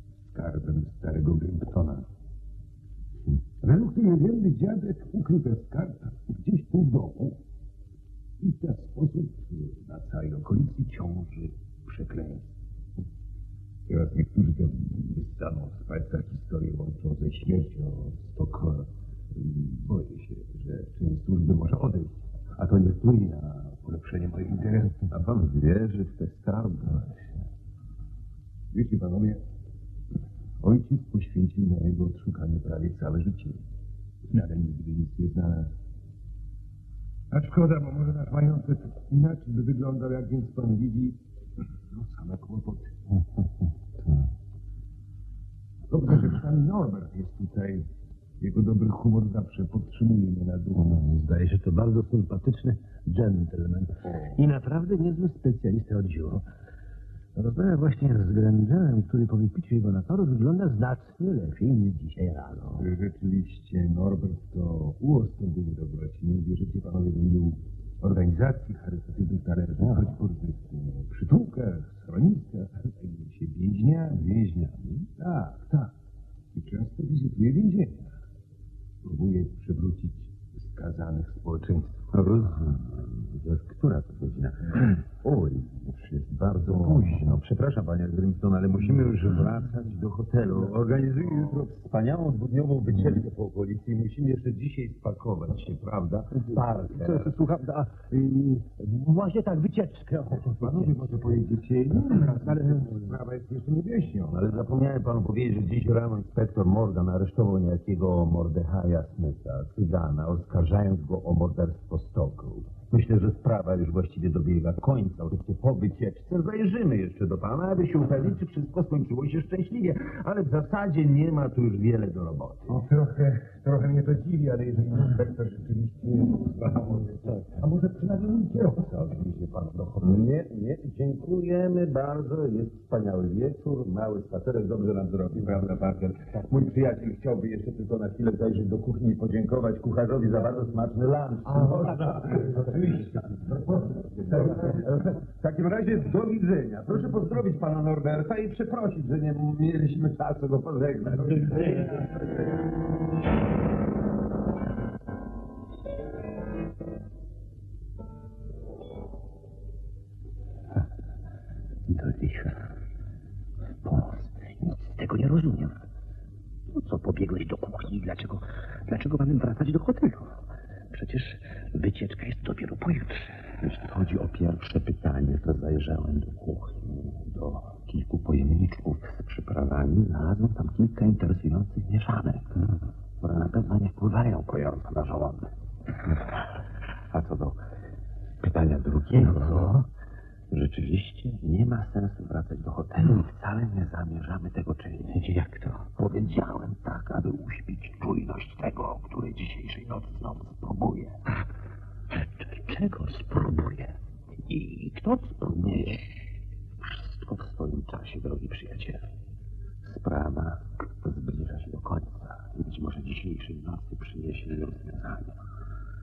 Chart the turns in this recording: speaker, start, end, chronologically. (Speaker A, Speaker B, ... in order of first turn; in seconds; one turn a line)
Speaker A: 0.2-2.1
Speaker A: 3.6-7.4
Speaker A: 8.4-12.5
Speaker A: 13.9-25.2
Speaker B: 25.1-27.4
Speaker A: 28.7-29.4
Speaker A: 30.6-33.6
Speaker A: 34.3-35.7
Speaker A: 37.3-41.2
Speaker A: 41.9-42.9
Speaker A: 45.9-47.9
Speaker A: 48.4-50.9
Speaker C: 50.8-56.4
Speaker A: 54.0-54.4
Speaker C: 57.4-62.8
Speaker A: 62.8-74.2
Speaker B: 74.1-75.1
Speaker A: 75.2-75.9
Speaker A: 76.5-78.1
Speaker A: 79.0-82.1
Speaker B: 82.1-97.3
Speaker A: 90.5-91.6
Speaker C: 97.0-101.1
Speaker A: 100.4-104.4
Speaker C: 102.1-103.0
Speaker B: 104.3-122.8
Speaker A: 122.7-130.2
Speaker B: 130.0-152.5
Speaker A: 142.7-144.2
Speaker C: 151.4-151.9
Speaker C: 161.9-162.6
Speaker C: 163.8-165.8
Speaker C: 166.7-170.3
Speaker C: 170.9-173.4
Speaker B: 173.6-182.6
Speaker B: 183.2-185.5
Speaker B: 186.0-187.6
Speaker B: 188.4-189.8
Speaker C: 189.4-189.8
Speaker B: 190.5-195.2
Speaker C: 195.1-195.8
Speaker B: 195.9-201.2
Speaker C: 202.1-203.9
Speaker B: 204.5-205.8
Speaker C: 204.5-205.9
Speaker B: 206.8-209.0
Speaker B: 209.8-215.4